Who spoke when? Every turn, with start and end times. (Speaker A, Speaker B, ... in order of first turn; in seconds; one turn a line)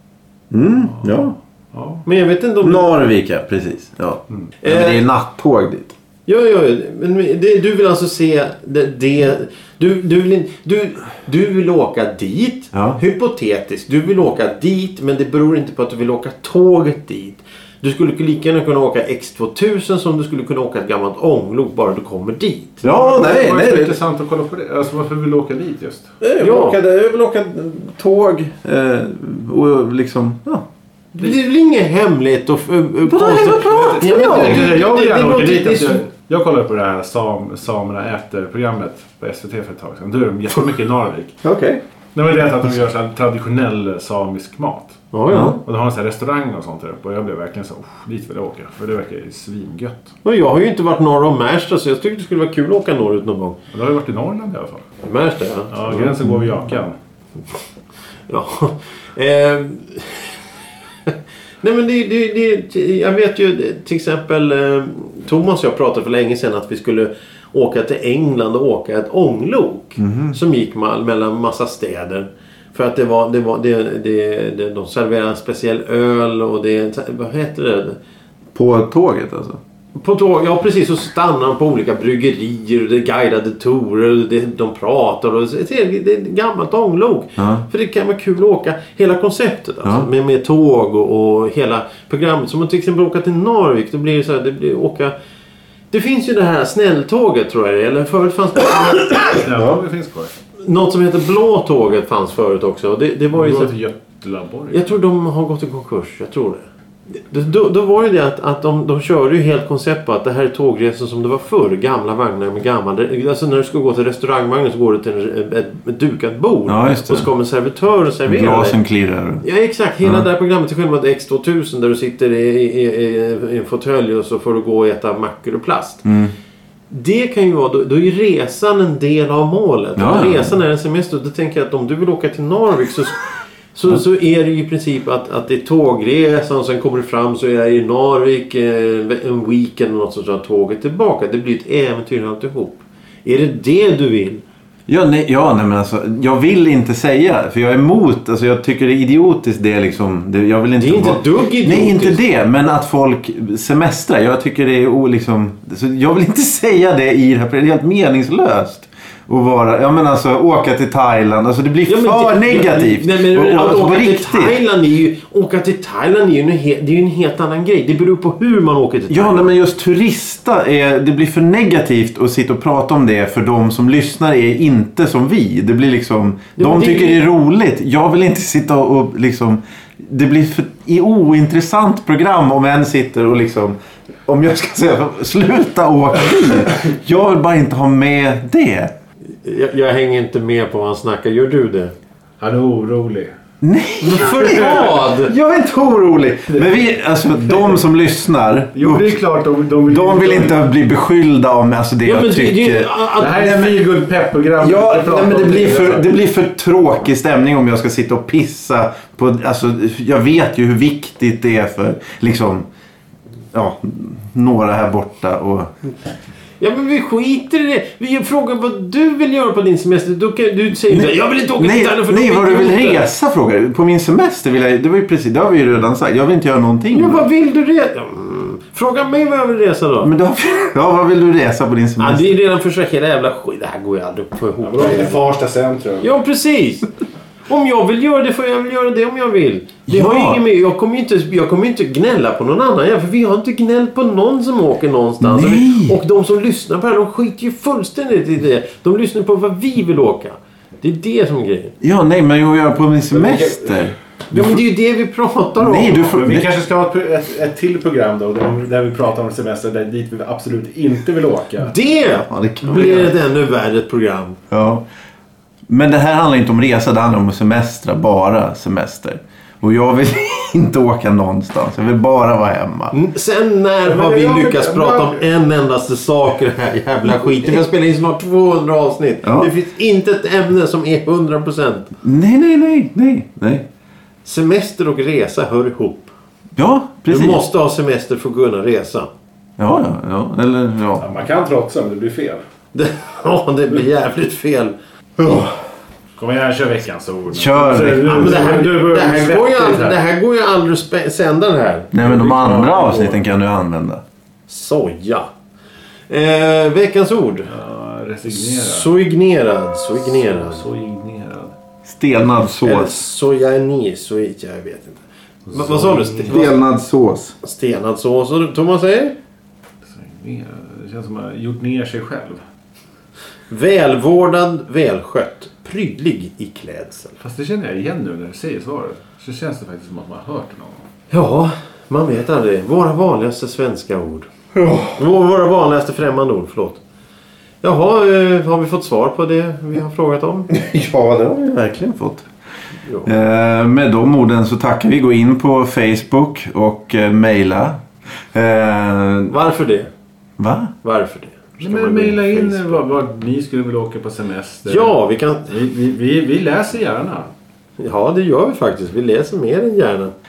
Speaker A: 0.5-1.4
Speaker B: 0.9-2.0
Speaker C: 2.0-2.9
Speaker A: 2.6-6.0
Speaker C: 4.6-5.0
Speaker C: 6.3-22.9
Speaker A: 12.7-13.0
Speaker A: 22.8-24.0
Speaker B: 22.9-26.1
Speaker A: 26.2-30.6
Speaker C: 26.4-26.8
Speaker C: 31.1-36.0
Speaker A: 33.1-34.7
Speaker B: 33.6-41.4
Speaker A: 41.4-41.8
Speaker B: 42.1-50.1
Speaker C: 45.1-45.6
Speaker A: 45.3-45.6
Speaker C: 50.2-53.6
Speaker B: 53.7-54.9
Speaker C: 55.0-56.0
Speaker B: 55.7-57.0
Speaker C: 58.3-60.4
Speaker C: 61.1-78.0
Speaker A: 70.0-70.4
Speaker A: 78.5-79.6
Speaker C: 80.0-95.1
Speaker A: 87.4-87.7
Speaker C: 95.9-99.4
Speaker B: 99.3-100.3
Speaker C: 100.6-103.7
Speaker B: 103.3-105.0
Speaker C: 104.7-118.8
Speaker A: 116.7-117.3
Speaker A: 118.3-119.4
Speaker C: 119.4-126.0
Speaker A: 126.0-126.3
Speaker C: 126.9-133.2
Speaker A: 130.0-130.6
Speaker C: 133.7-144.4
Speaker A: 144.9-164.6
Speaker C: 150.8-152.2
Speaker C: 161.9-169.5
Speaker A: 169.1-188.9
Speaker C: 176.6-177.2
Speaker C: 189.4-191.9
Speaker B: 192.4-193.3
Speaker A: 193.6-199.2
Speaker C: 194.0-195.3
Speaker B: 194.6-195.0
Speaker B: 198.8-200.6
Speaker A: 199.9-203.7
Speaker C: 202.1-203.6
Speaker B: 203.2-206.1
Speaker A: 204.6-212.7
Speaker A: 213.5-215.7
Speaker C: 216.6-223.1
Speaker A: 220.9-227.2
Speaker C: 226.9-230.1
Speaker A: 230.0-232.4
Speaker C: 232.0-235.2
Speaker B: 234.6-236.1
Speaker C: 236.0-236.9
Speaker C: 237.5-251.7
Speaker A: 239.9-240.4
Speaker A: 245.2-246.0
Speaker A: 251.8-254.6
Speaker B: 253.1-253.9
Speaker C: 254.3-256.1
Speaker A: 255.6-256.5
Speaker B: 256.1-261.8
Speaker C: 261.6-264.4
Speaker A: 262.2-263.1
Speaker A: 264.5-264.8
Speaker A: 265.7-272.9
Speaker C: 272.9-281.9
Speaker B: 273.8-275.3
Speaker A: 279.2-279.5
Speaker A: 282.0-283.7
Speaker C: 284.2-286.1
Speaker A: 286.6-287.4
Speaker C: 287.1-289.1
Speaker A: 289.6-291.1
Speaker B: 291.0-292.4
Speaker C: 292.7-294.8
Speaker A: 295.2-295.5
Speaker B: 296.2-300.0
Speaker A: 297.3-298.4
Speaker C: 298.0-302.8
Speaker A: 301.9-304.0
Speaker B: 302.0-303.2
Speaker C: 304.5-305.3
Speaker C: 306.1-307.5
Speaker B: 307.5-308.9
Speaker C: 308.3-310.6
Speaker B: 309.9-311.6
Speaker A: 311.9-312.9
Speaker C: 312.4-315.0
Speaker B: 315.5-316.4
Speaker C: 315.5-316.6
Speaker A: 316.3-317.4
Speaker C: 317.4-319.2
Speaker B: 319.9-322.4
Speaker C: 323.5-327.2
Speaker B: 327.2-330.9
Speaker C: 331.1-334.3
Speaker A: 334.6-334.9
Speaker C: 334.9-336.8
Speaker C: 337.6-340.5
Speaker A: 340.5-342.3
Speaker C: 342.9-343.1
Speaker A: 343.1-349.4
Speaker C: 349.3-349.9
Speaker A: 350.4-350.7
Speaker C: 350.8-352.8
Speaker B: 351.6-355.0
Speaker C: 354.6-355.5
Speaker B: 355.5-357.3
Speaker C: 357.8-360.1